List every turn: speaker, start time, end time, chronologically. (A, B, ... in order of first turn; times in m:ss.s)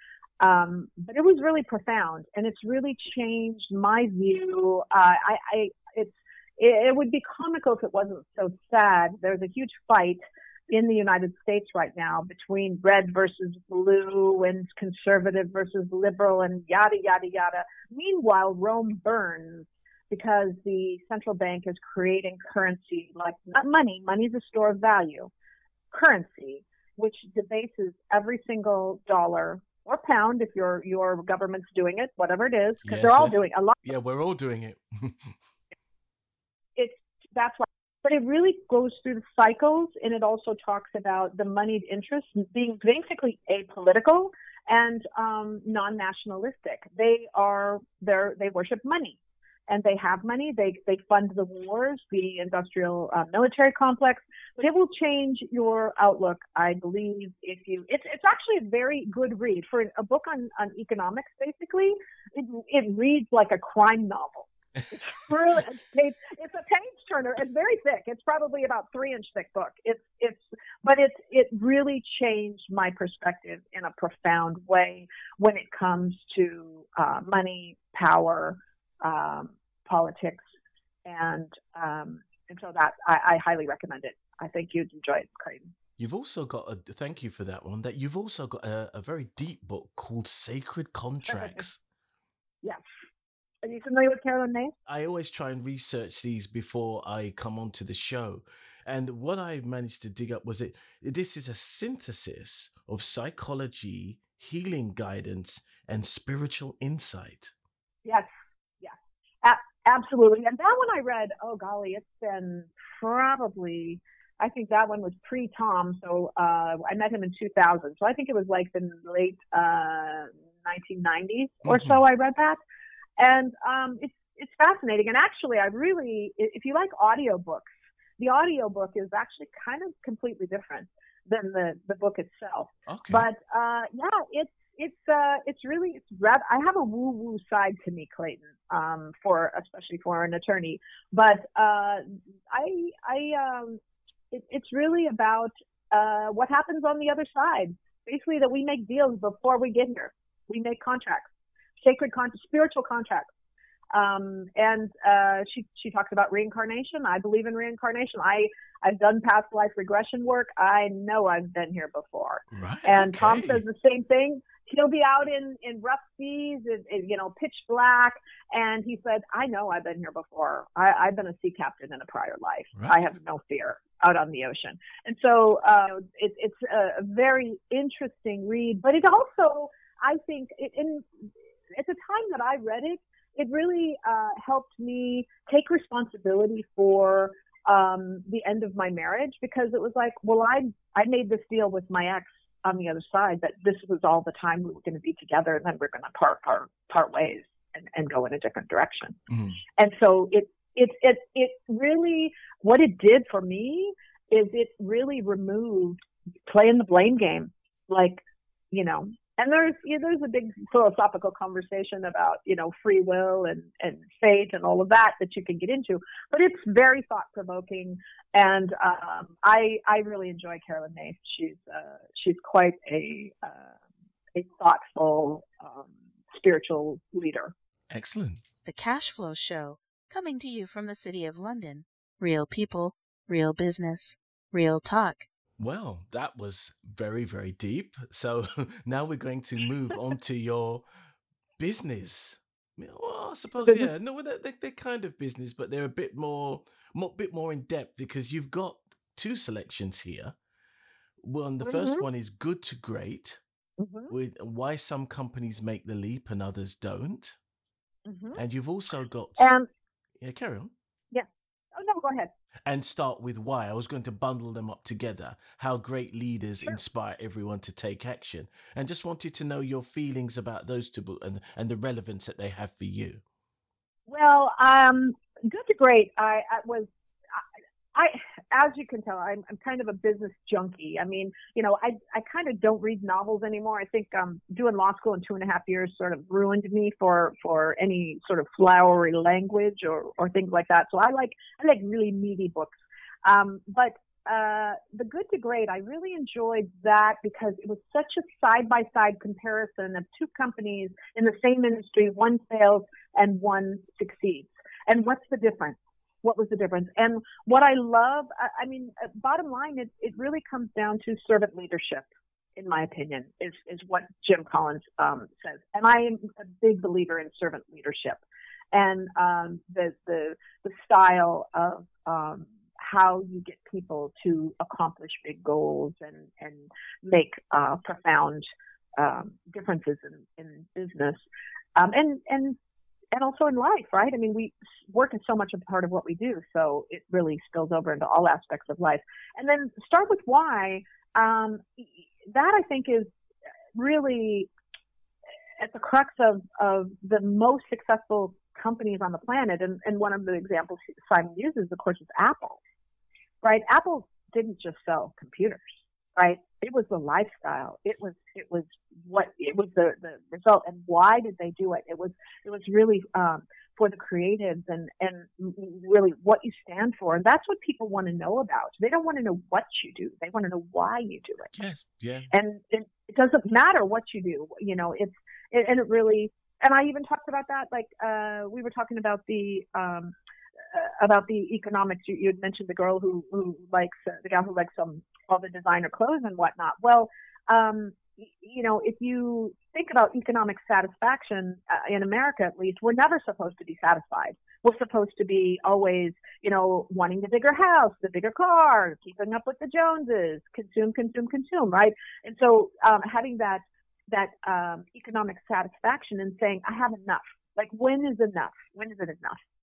0:00.4-0:25.3 A
0:25.9-0:33.8 A
0:32.8-0:35.4 B
0:36.8-1:20.5 A
1:21.0-1:25.7 A
1:26.0-1:31.8 B
1:31.3-1:31.6 A
1:33.6-1:34.7 A
1:34.9-1:47.5 B
1:48.0-2:02.6 A
2:01.6-2:02.0 B
2:03.2-2:23.8 A
2:12.9-2:13.3 B
2:24.3-2:33.3 A
2:33.9-3:19.2 A
2:42.5-2:43.6 B
2:52.8-2:53.0 B
3:19.3-3:19.6 B
3:19.8-3:43.8 A
3:44.3-3:47.5 A
3:47.9-3:48.4 B
3:48.6-3:55.2 C
3:55.6-4:00.8 B
4:01.6-4:10.4 B
4:03.6-4:03.9 A
4:11.2-4:13.4 B
4:11.6-4:12.0 A
4:13.8-4:14.1 A
4:14.1-4:17.4 B
4:18.0-4:18.4 A
4:18.4-4:19.6 B
4:19.4-4:19.7 A
4:20.2-4:20.7 B
4:21.1-4:22.3 A
4:22.7-4:33.2 B
4:34.1-4:52.7 A
4:53.2-5:31.2 A
5:31.8-5:32.6 A
5:33.1-5:43.1 A
5:43.8-5:44.5 A
5:45.6-5:52.6 A
5:53.4-6:11.6 A
6:11.6-6:12.3 B
6:12.3-6:20.1 A
6:20.7-6:49.4 A